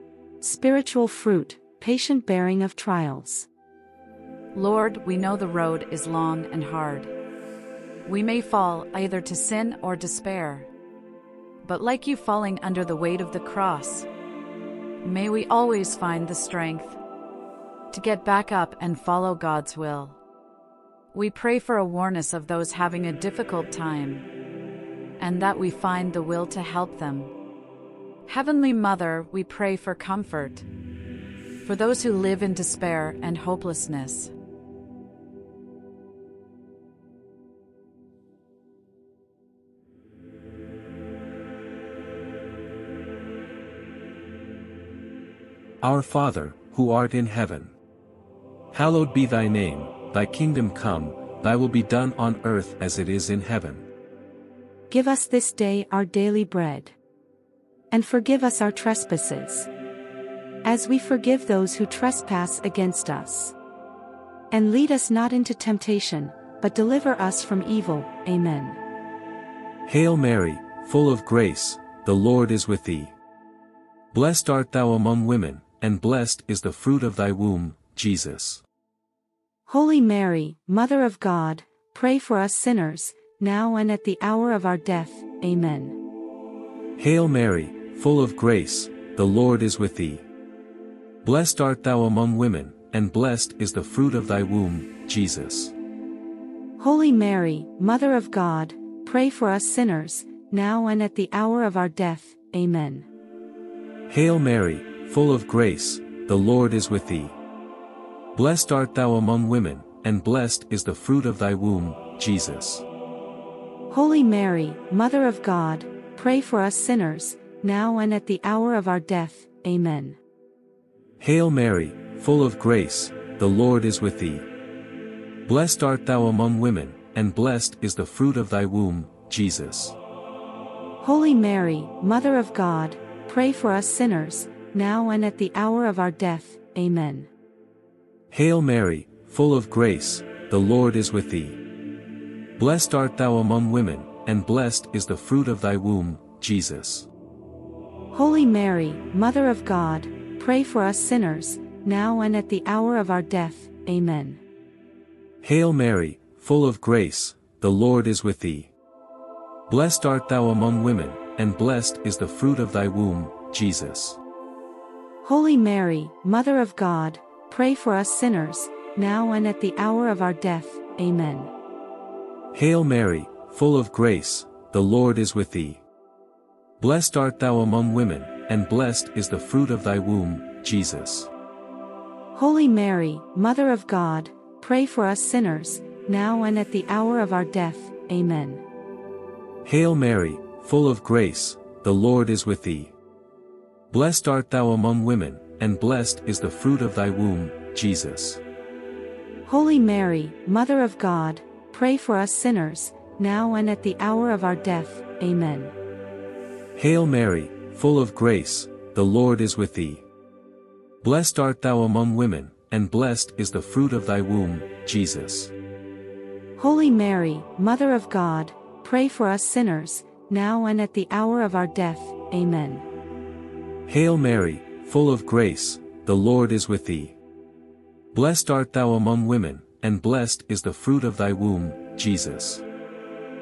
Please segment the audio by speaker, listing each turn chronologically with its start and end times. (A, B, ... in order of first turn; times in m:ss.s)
0:00.4-0:03.5 A
0:04.5-0:07.1 B
0:08.0-0:10.7 B
0:11.6-0:14.1 B
0:15.0-0:17.0 B
0:17.9-0:20.2 B
0:21.1-0:24.2 B
0:25.2-0:27.3 B
0:28.3-0:30.6 B
0:31.6-0:34.3 B
0:45.8-0:47.7 C
0:48.7-0:53.8 C
0:54.9-0:56.9 A
0:57.9-0:59.7 A
1:00.6-1:03.5 A
1:04.5-1:08.8 A
1:09.8-1:13.1 C
1:14.1-1:18.6 C
1:19.7-1:26.0 A
1:27.0-1:30.2 C
1:31.2-1:35.7 C
1:36.8-1:43.1 A
1:44.1-1:47.4 C
1:48.3-1:52.8 C
1:53.9-2:00.2 A
2:01.2-2:04.5 C
2:05.4-2:10.0 C
2:11.0-2:17.3 A
2:18.3-2:21.6 C
2:22.6-2:27.1 C
2:28.1-2:34.4 A
2:35.4-2:38.7 C
2:39.7-2:44.2 C
2:45.2-2:51.5 A
2:52.5-2:55.8 C
2:56.8-3:01.3 C
3:02.3-3:08.6 A
3:09.6-3:12.9 C
3:13.9-3:18.4 C
3:19.4-3:25.7 A
3:26.7-3:30.0 C
3:31.0-3:35.5 C
3:36.6-3:42.8 A
3:43.8-3:47.2 C
3:48.1-3:52.6 C